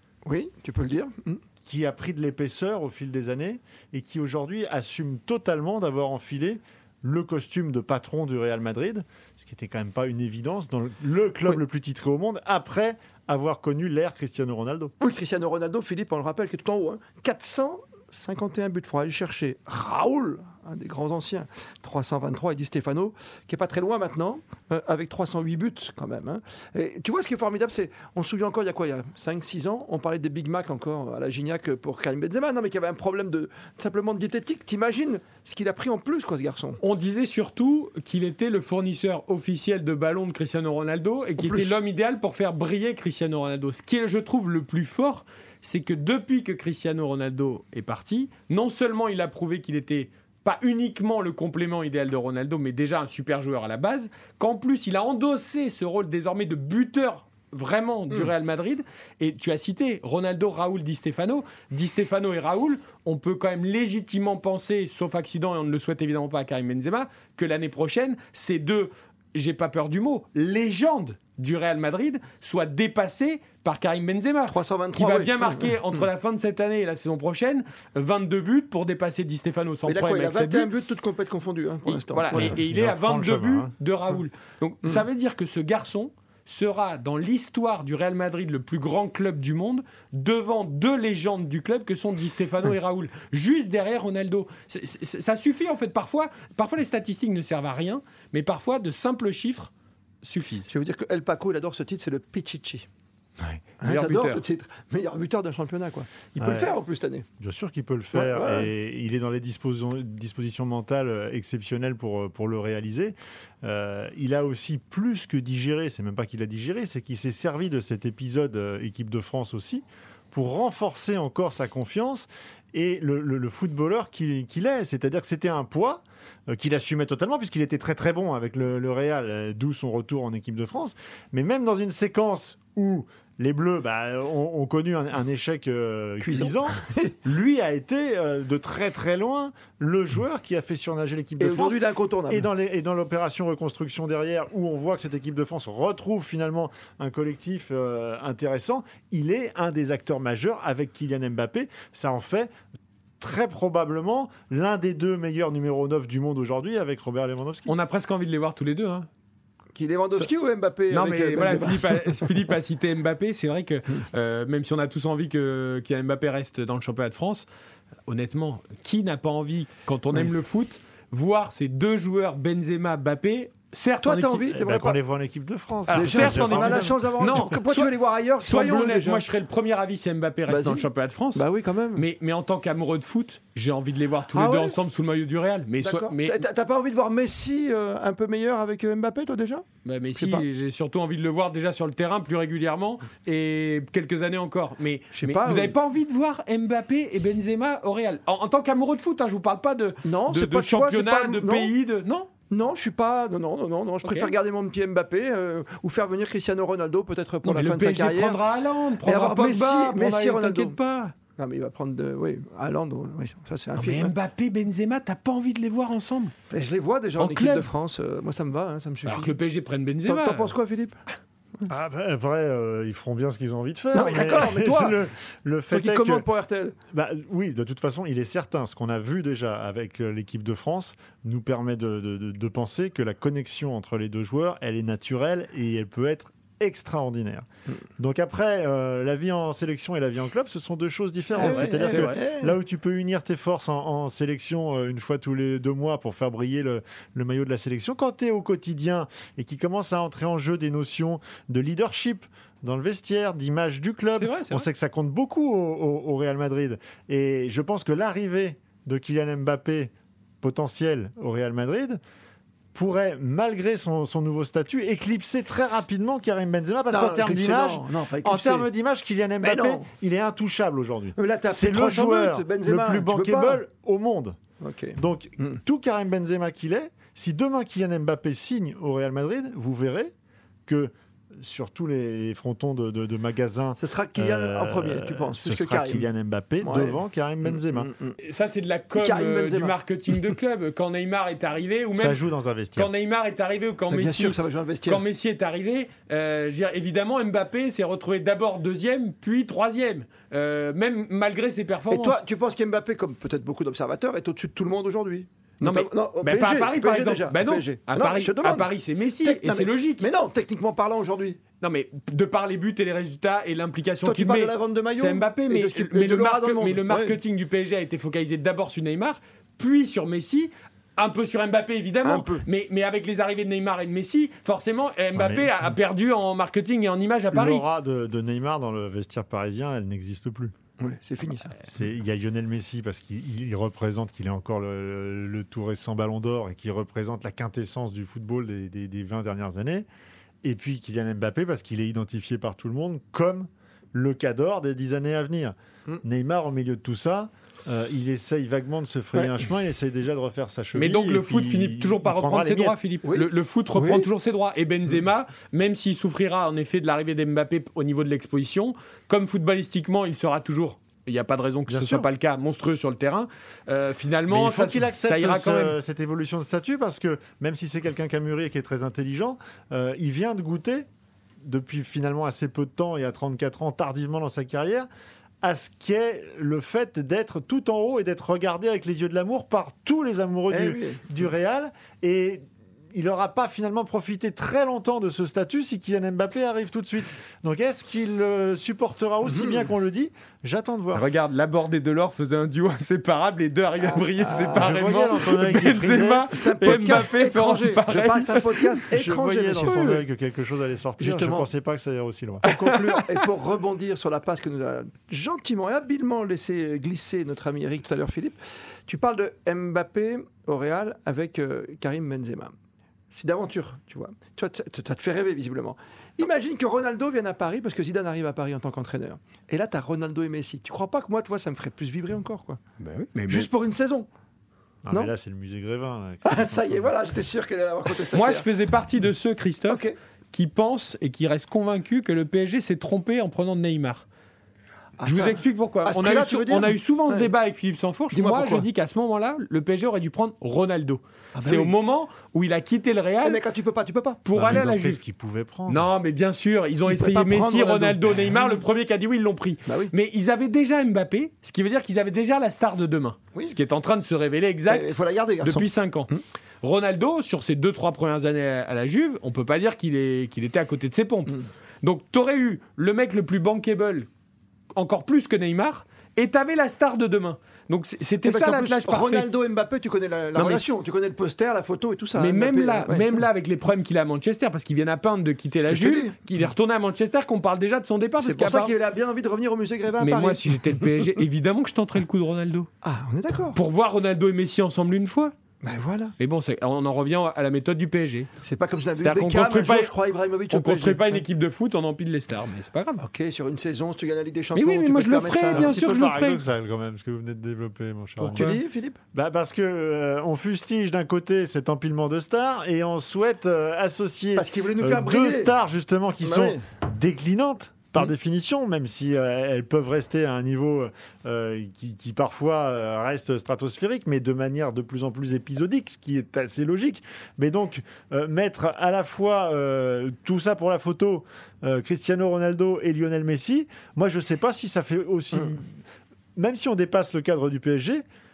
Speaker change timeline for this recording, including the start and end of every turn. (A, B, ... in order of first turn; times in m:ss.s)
0:00.2-0:01.4 A
0:01.6-0:14.9 B
0:15.0-0:36.8 A
0:36.8-1:20.7 C
0:41.4-0:41.7 A
1:14.5-1:16.1 A
1:19.8-1:22.6 A
1:21.9-1:39.7 C
1:22.3-1:23.7 B
1:40.2-1:40.7 C
1:40.7-1:42.8 A
1:43.8-1:47.2 A
1:43.8-1:44.4 C
1:46.4-1:46.7 B
1:47.4-2:32.5 B
1:48.1-1:48.7 A
2:16.2-2:17.1 A
2:21.4-2:22.5 A
2:33.2-2:37.7 B
2:37.7-2:39.1 C
2:39.7-2:42.4 A
2:40.9-2:47.5 C
2:48.1-2:54.4 C
2:54.0-2:55.0 A
2:54.5-2:56.9 B
2:55.9-3:06.4 C
2:55.9-2:59.3 A
3:00.5-3:02.0 A
3:04.3-3:04.8 A
3:05.8-3:10.4 A
3:09.8-3:22.3 C
3:15.1-3:15.8 A
3:20.0-3:21.7 A
3:22.5-3:28.4 A
3:24.0-3:24.3 C
3:27.4-3:31.1 C
3:29.0-3:30.8 A
3:31.4-3:34.1 A
3:33.8-3:36.3 C
3:36.5-3:39.4 A
3:37.2-3:37.6 C
3:39.0-3:40.5 C
3:40.0-3:41.0 A
3:41.7-3:46.2 B
3:43.9-3:45.0 A
3:45.7-3:46.8 A
3:46.9-3:57.4 B
3:58.0-4:22.0 B
4:01.3-4:02.6 A
4:01.4-4:02.2 C
4:14.2-4:14.7 C
4:22.7-4:34.4 B
4:26.9-4:28.7 A
4:29.4-4:29.9 A
4:31.2-4:33.6 A
4:34.6-4:35.6 A
4:35.0-4:40.1 B
4:40.7-4:47.9 B
4:43.8-4:46.0 A
4:46.6-4:48.2 A
4:48.2-4:52.2 C
4:48.9-4:50.3 A
4:51.9-4:52.9 B
4:52.8-5:02.2 C
4:53.9-4:55.0 A
5:01.9-5:08.7 A
5:05.6-5:10.1 C
5:09.2-5:11.4 A
5:11.6-5:27.6 C
5:14.0-5:17.2 A
5:22.0-5:22.4 A
5:25.1-5:25.5 B
5:27.3-5:30.5 B
5:30.8-5:31.6 A
5:31.6-5:39.9 B
5:40.4-5:52.7 B
5:50.7-6:05.8 C
5:53.0-5:54.1 A
6:01.7-6:02.1 B
6:04.3-6:10.9 B
6:11.4-6:14.9 B
6:15.4-6:31.1 B
6:20.5-6:21.1 A
6:29.2-6:29.7 A
6:30.9-6:38.8 C
6:33.8-6:35.3 A
6:34.5-6:36.3 B
6:36.3-6:40.0 A
6:38.9-6:42.4 B
6:41.0-6:41.5 A
6:42.4-6:43.0 C
6:42.4-6:48.4 A
6:48.9-6:52.5 A
6:53.1-7:02.6 A
7:02.8-7:03.5 C
7:03.3-7:04.1 A
7:04.8-7:06.9 B
7:06.2-7:08.5 A
7:08.1-7:14.1 C
7:09.7-7:10.0 A
7:15.0-7:17.3 A
7:15.0-7:23.4 C
7:18.1-7:18.6 A
7:21.3-7:21.7 A
7:23.2-7:24.2 A
7:24.2-7:25.0 C
7:24.3-7:25.9 B
7:25.7-7:44.1 C
7:26.8-7:28.6 A
7:29.7-7:29.9 A
7:34.7-7:36.2 A
7:44.7-7:49.3 C
7:48.2-7:53.2 A
7:50.3-7:50.7 C
7:52.2-7:58.7 C
7:55.6-7:56.2 A
7:58.2-8:01.2 A
8:00.0-8:02.7 C
8:02.8-8:03.6 A
8:03.5-8:05.3 C
8:05.6-8:06.1 A
8:06.2-8:08.3 C
8:08.4-8:11.2 A
8:09.0-8:09.9 C
8:10.5-8:13.0 C
8:13.0-8:15.8 A
8:14.5-8:16.4 C
8:15.5-8:18.6 B
8:18.2-8:18.6 C
8:18.3-8:19.0 A
8:19.1-8:45.8 B
8:24.4-8:25.5 A
8:26.2-8:26.6 A
8:46.4-8:48.0 B